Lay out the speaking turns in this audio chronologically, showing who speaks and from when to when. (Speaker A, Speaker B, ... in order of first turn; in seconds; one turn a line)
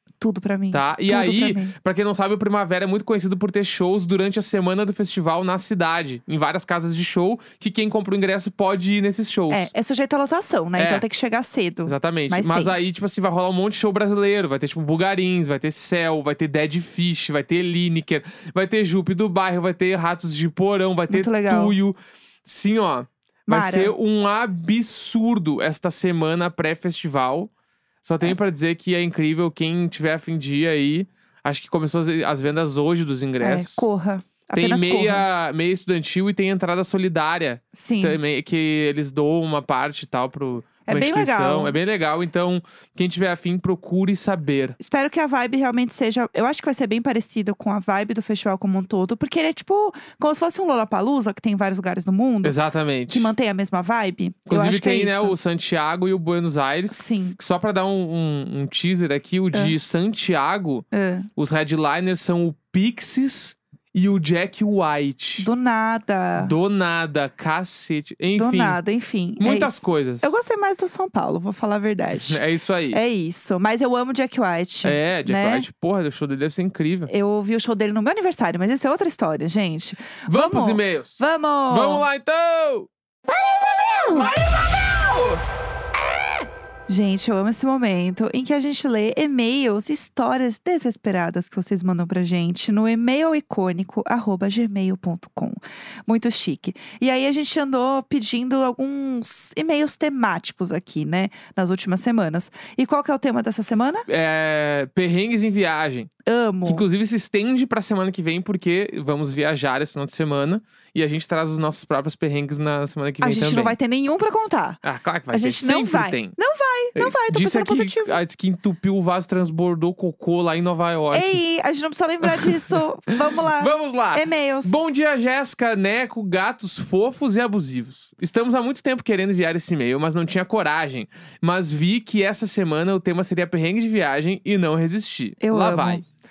Speaker A: 0.2-1.8
Speaker B: 0.7-9.7
Speaker A: 9.5-12.7
Speaker B: 10.8-11.1
Speaker B: 11.9-27.5
Speaker A: 21.1-21.8
Speaker A: 23.5-23.9
Speaker B: 28.0-33.9
Speaker A: 33.4-35.3
Speaker B: 34.5-44.8
Speaker A: 37.7-38.2
Speaker A: 40.9-41.8
Speaker A: 44.8-52.6
Speaker B: 52.4-53.3
Speaker A: 53.1-55.4
Speaker B: 54.5-65.5
Speaker A: 56.9-57.4
Speaker A: 60.9-61.3
Speaker A: 65.4-66.5
Speaker B: 66.4-68.8
Speaker A: 68.4-72.4
Speaker B: 69.4-70.3
Speaker B: 72.2-73.0
Speaker A: 72.9-75.7
Speaker B: 74.8-77.1
Speaker A: 77.1-82.1
Speaker B: 80.3-82.9
Speaker A: 83.5-84.3
Speaker B: 83.9-85.4
Speaker A: 86.9-104.1
Speaker B: 104.1-106.1
Speaker A: 106.3-106.8
Speaker B: 106.7-113.8
Speaker A: 113.2-118.2
Speaker B: 114.8-116.4
Speaker B: 117.0-121.4
Speaker A: 121.1-124.8
Speaker B: 122.2-122.8
Speaker B: 123.4-136.0
Speaker A: 135.4-136.0